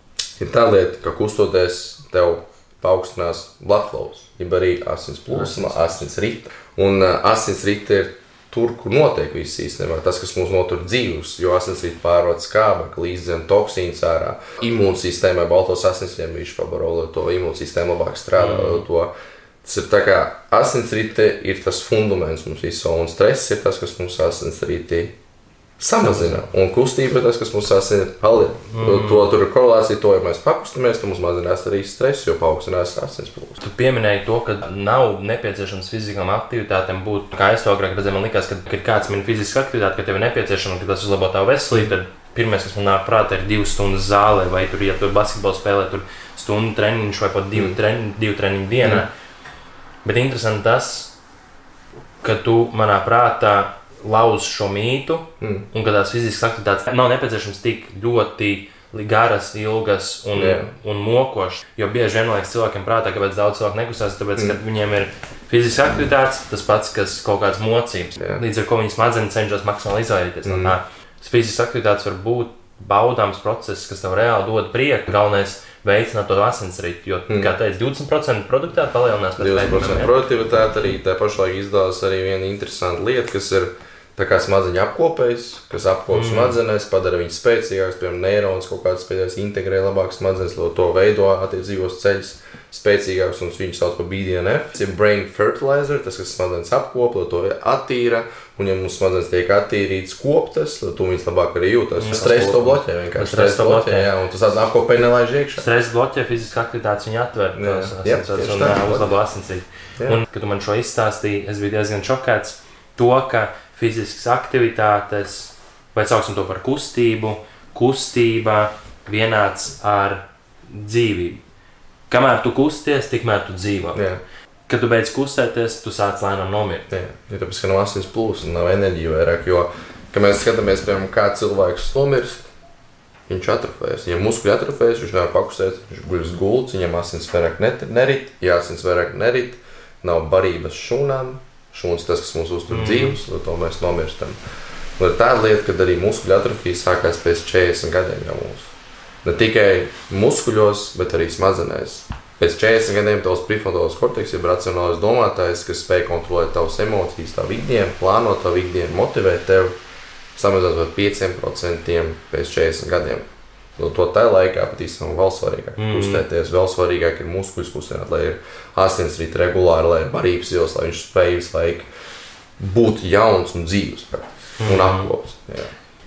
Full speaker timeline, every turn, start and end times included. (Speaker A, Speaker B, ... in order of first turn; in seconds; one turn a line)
Speaker A: 0.4-19.1
Speaker B: 5.3-6.0
Speaker B: 18.4-18.9
Speaker A: 19.6-25.1
Speaker A: 25.8-33.6
Speaker B: 26.1-26.4
Speaker B: 28.7-29.3
Speaker B: 33.6-49.1
Speaker B: 50.0-51.1
Speaker B: 52.2-80.1
Speaker A: 55.4-55.7
Speaker A: 60.4-60.7
Speaker A: 68.2-68.4
Speaker A: 70.5-70.8
Speaker A: 77.3-77.5
Speaker A: 79.4-105.7
Speaker B: 86.1-86.6
Speaker B: 102.0-104.1
Speaker B: 105.6-121.4
Speaker A: 107.5-109.1
Speaker B: 122.1-124.0
Speaker A: 123.9-124.2
Speaker B: 124.7-126.9
Speaker A: 126.9-132.5
Speaker A: 133.3-144.4
Speaker B: 142.7-143.2
Speaker A: 145.0-148.7
Speaker A: 149.2-159.8
Speaker A: 160.4-163.3
Speaker A: 163.8-171.9
Speaker B: 165.8-166.2
Speaker A: 172.6-175.7
Speaker B: 174.6-175.1